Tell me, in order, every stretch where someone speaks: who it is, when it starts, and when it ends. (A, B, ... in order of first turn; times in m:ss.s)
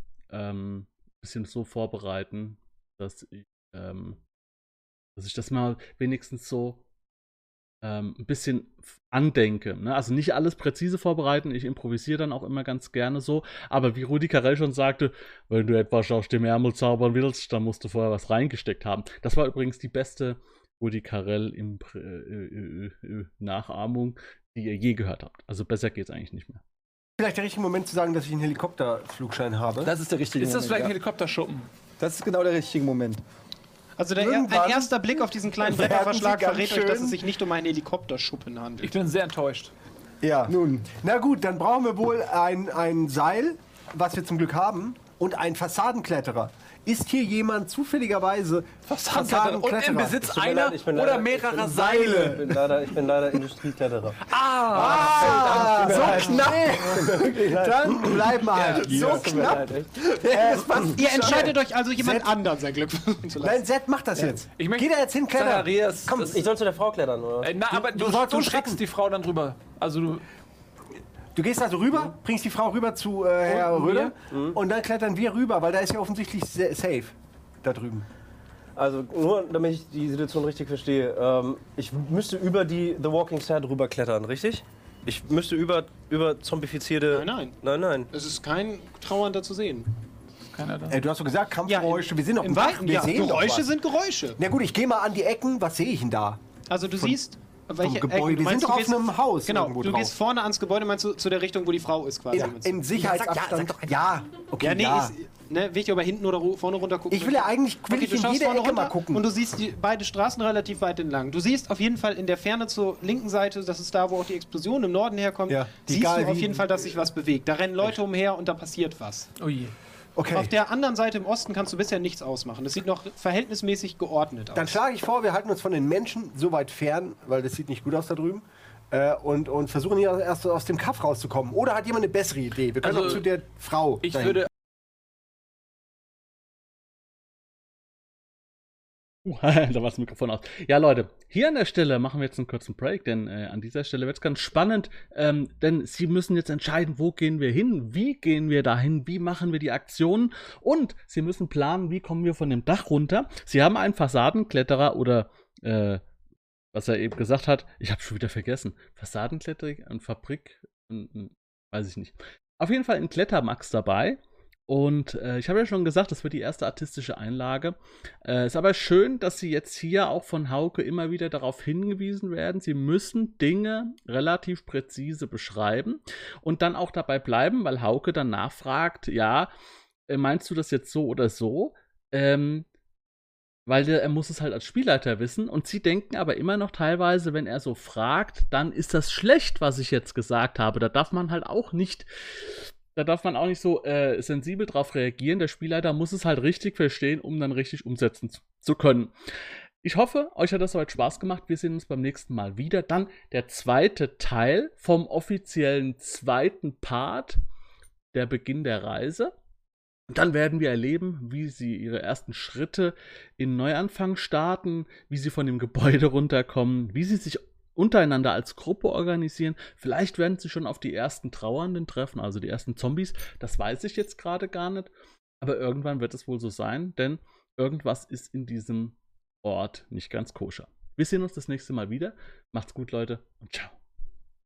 0:00.3-0:04.2 A
0:05.2-0:06.8 A
0:07.8-0:26.6 A
0:27.2-0:29.9 B
0:29.8-0:30.9 C
0:30.4-0:31.7 D
0:32.0-0:33.2 C
0:34.0-0:38.9 E
0:34.2-0:37.2 B
0:38.8-0:39.7 D
0:40.2-0:40.6 C
0:40.4-0:50.4 B
0:48.9-0:52.3 D
0:50.3-0:54.2 F
0:51.9-0:52.2 C
0:54.2-0:56.4 D
0:54.7-1:02.3 B
0:54.7-0:59.9 F
0:55.6-0:56.0 C
0:58.4-0:59.5 D
0:59.1-0:59.7 C
1:00.9-1:03.6 E
1:03.4-1:06.4 B
1:04.6-1:06.4 D
1:06.2-1:07.6 F
1:07.4-1:10.2 D
1:07.7-1:08.8 B
1:11.3-1:18.0 B
1:13.5-1:14.1 D
1:14.3-1:14.6 F
1:18.8-1:28.1 F
1:27.1-1:27.6 E
1:28.1-1:29.9 E
1:30.5-1:31.0 D
1:30.9-1:33.7 B
1:31.7-1:34.4 E
1:34.4-1:36.4 B
1:36.7-1:43.5 E
1:37.8-1:40.1 B
1:42.3-1:45.1 B
1:44.6-1:59.3 E
1:47.1-1:49.2 B
1:55.5-1:57.0 B
1:59.4-1:59.7 D
2:00.2-2:00.5 B
2:00.3-2:04.8 E
2:04.5-2:14.5 B
2:12.8-2:13.3 D
2:14.0-2:14.5 D
2:19.2-2:36.0 A
2:36.7-2:59.5 A
3:00.1-3:02.6 A
3:03.6-3:19.1 A
3:19.8-3:27.4 A
3:28.1-3:29.3 A
3:30.1-3:44.9 A
3:45.4-3:53.7 A